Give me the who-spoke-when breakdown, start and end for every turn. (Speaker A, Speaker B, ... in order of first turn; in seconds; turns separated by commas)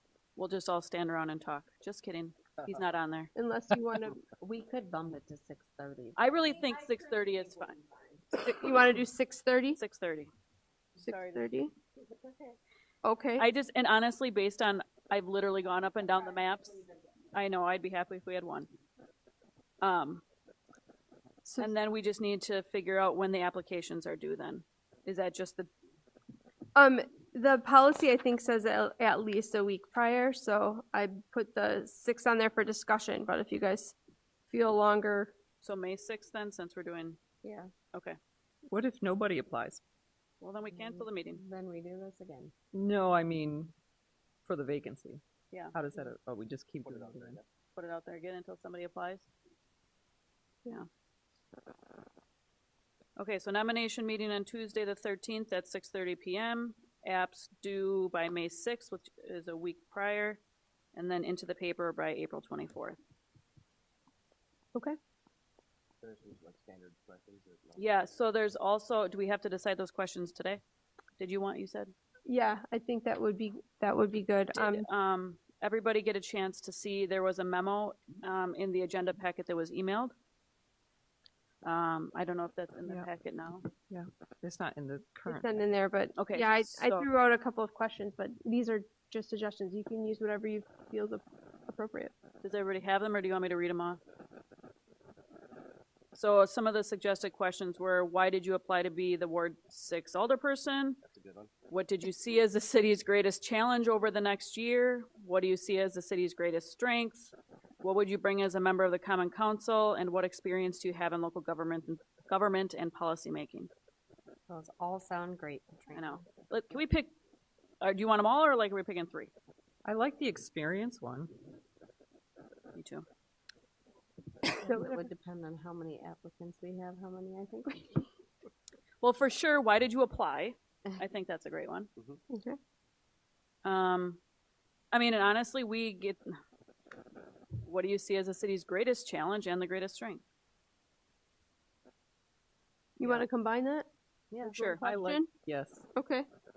Speaker A: 0.4-3.3, Speaker B: 3.4-4.2, Speaker C: 4.3-6.7, Speaker A: 6.2-7.8, Speaker C: 7.6-8.0, Speaker B: 8.4-9.8, Speaker A: 9.8-10.3, Speaker B: 11.0-11.7, Speaker A: 11.0-11.4, Speaker B: 13.0-13.5, Speaker A: 13.4-18.7, Speaker A: 19.8-20.2, Speaker B: 21.4-21.7, Speaker A: 21.6-25.7, Speaker B: 26.8-34.0, Speaker B: 34.5-35.3, Speaker A: 35.6-37.2, Speaker C: 37.4-37.7, Speaker D: 38.7-39.8, Speaker A: 40.4-41.4, Speaker C: 40.7-42.5, Speaker D: 42.7-43.7, Speaker D: 44.5-45.2, Speaker D: 45.7-47.4, Speaker E: 46.8-47.5, Speaker A: 47.8-49.3, Speaker A: 53.2-60.4, Speaker A: 61.0-63.0, Speaker E: 66.0-68.3, Speaker A: 67.8-70.6, Speaker A: 71.2-71.9, Speaker B: 72.2-74.8, Speaker A: 74.5-80.1, Speaker A: 81.6-83.6, Speaker D: 83.9-85.5, Speaker B: 85.3-92.1, Speaker A: 86.2-87.1, Speaker A: 92.4-94.0, Speaker A: 96.1-101.0, Speaker E: 101.0-101.5, Speaker A: 101.7-113.7, Speaker C: 114.5-116.5, Speaker A: 115.9-117.1, Speaker A: 117.8-119.3, Speaker D: 119.8-121.3, Speaker A: 122.7-123.0, Speaker C: 124.5-128.1, Speaker B: 124.6-125.0, Speaker A: 129.0-131.9, Speaker B: 132.3-132.6, Speaker A: 133.7-134.2, Speaker A: 134.9-136.3, Speaker A: 137.6-140.2, Speaker B: 143.0-143.9, Speaker D: 144.3-145.9, Speaker B: 144.4-145.3, Speaker A: 144.6-144.8, Speaker B: 145.9-146.3